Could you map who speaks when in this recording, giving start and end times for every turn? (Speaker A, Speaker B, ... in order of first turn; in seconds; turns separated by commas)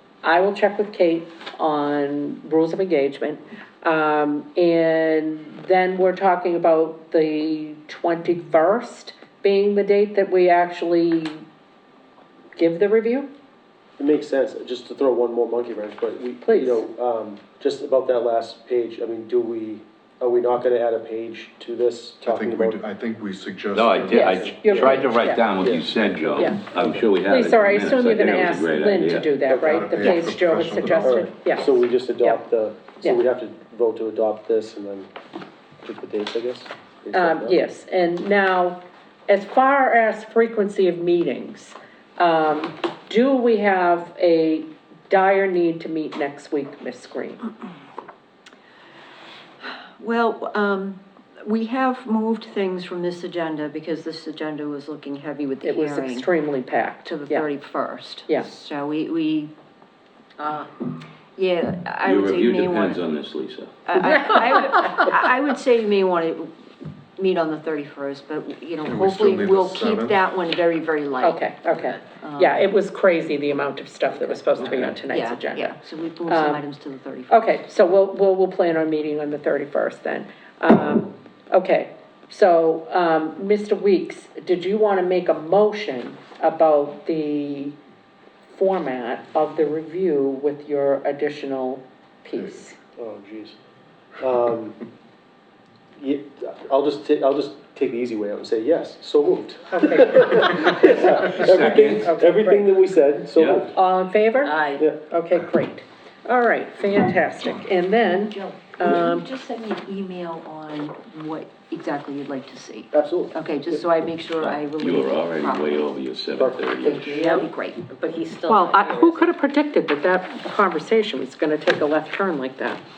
Speaker A: 0.2-11.4, Speaker A: 12.6-13.3, Speaker B: 14.0-22.8, Speaker A: 16.4-16.8, Speaker C: 22.2-24.5, Speaker D: 23.7-29.4, Speaker A: 24.1-25.5, Speaker B: 24.2-25.9, Speaker A: 26.4-26.6, Speaker A: 27.2-32.4, Speaker B: 29.5-30.0, Speaker C: 29.6-31.3, Speaker B: 31.0-35.1, Speaker B: 35.8-37.6, Speaker A: 37.1-47.5, Speaker E: 50.0-56.3, Speaker A: 55.6-57.5, Speaker E: 57.0-59.5, Speaker E: 61.4-63.1, Speaker D: 62.0-63.7, Speaker E: 63.9-66.5, Speaker E: 67.2-72.6, Speaker C: 68.8-70.2, Speaker A: 71.2-75.7, Speaker E: 74.2-77.4, Speaker D: 74.6-74.9, Speaker A: 76.3-76.6, Speaker A: 77.3-87.8, Speaker A: 88.5-92.8, Speaker B: 93.0-93.5, Speaker B: 94.2-94.8, Speaker B: 96.0-103.7, Speaker A: 99.7-102.7, Speaker D: 101.2-102.1, Speaker D: 103.3-103.7, Speaker A: 103.7-109.2, Speaker F: 104.4-104.9, Speaker E: 108.0-115.9, Speaker B: 112.9-113.8, Speaker D: 114.3-117.2, Speaker B: 116.4-117.1, Speaker E: 116.8-117.9, Speaker F: 117.2-119.3, Speaker A: 118.5-122.8